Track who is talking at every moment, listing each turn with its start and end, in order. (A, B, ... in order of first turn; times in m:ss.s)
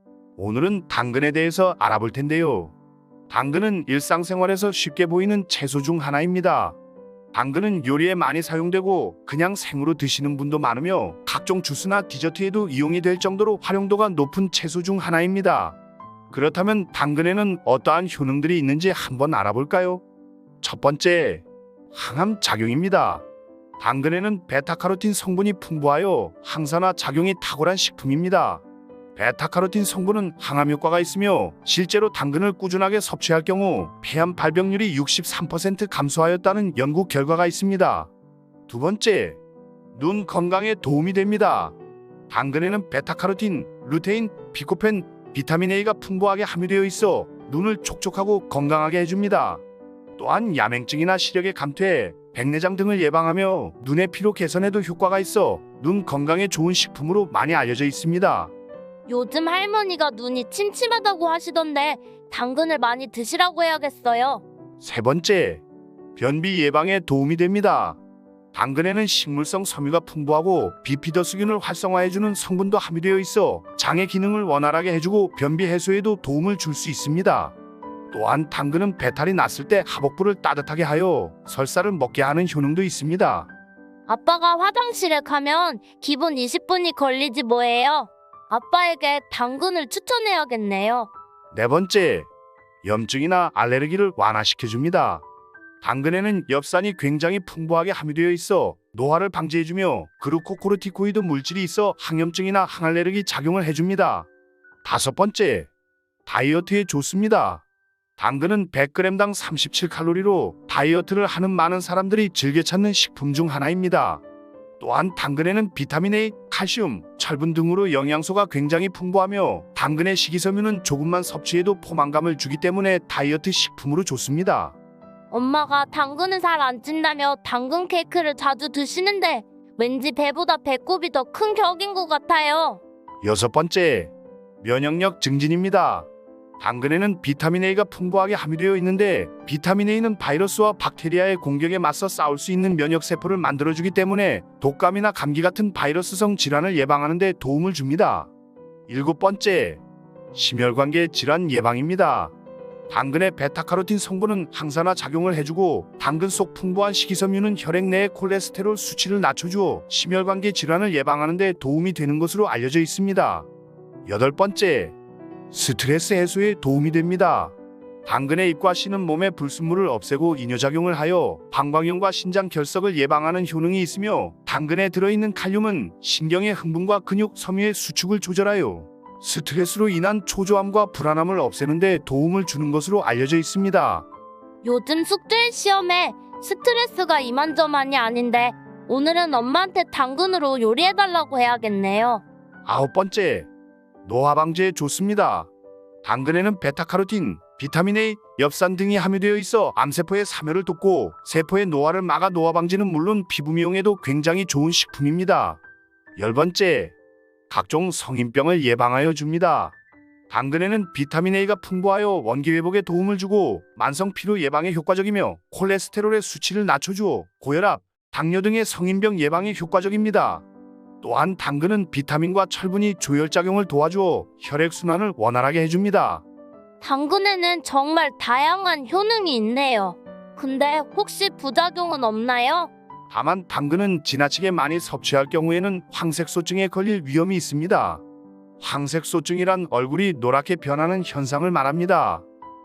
0:00.4-0:02.7 A
0:03.3-0:06.8 A
0:07.3-0:15.8 A
0:16.3-0:20.0 A
0:20.6-0:23.2 A
0:23.8-0:28.6 A
0:29.2-0:38.1 A
0:38.7-0:39.4 A
0:39.9-0:41.8 A
0:42.3-0:49.6 A
0:50.2-0:58.5 A
0:59.1-1:04.4 B
1:04.8-1:05.6 A
1:06.2-1:08.0 A
1:08.5-1:17.5 A
1:18.1-1:23.5 A
1:24.1-1:31.1 B
1:31.5-1:32.3 A
1:32.8-1:35.2 A
1:35.8-1:44.3 A
1:44.8-1:45.7 A
1:46.2-1:47.6 A
1:48.2-1:54.2 A
1:54.8-2:04.8 A
2:05.3-2:12.8 B
2:13.2-2:16.1 A
2:16.6-2:28.3 A
2:28.9-2:29.8 A
2:30.3-2:32.3 A
2:32.9-2:43.5 A
2:44.0-2:45.0 A
2:45.5-2:47.5 A
2:48.0-3:04.0 A
3:04.6-3:12.2 B
3:12.6-3:13.5 A
3:14.0-3:15.5 A
3:16.0-3:25.6 A
3:26.2-3:26.9 A
3:27.5-3:29.8 A
3:30.3-3:40.4 A
3:41.0-3:46.2 A
3:46.8-3:52.7 B
3:53.1-3:58.0 A
3:58.6-4:02.2 A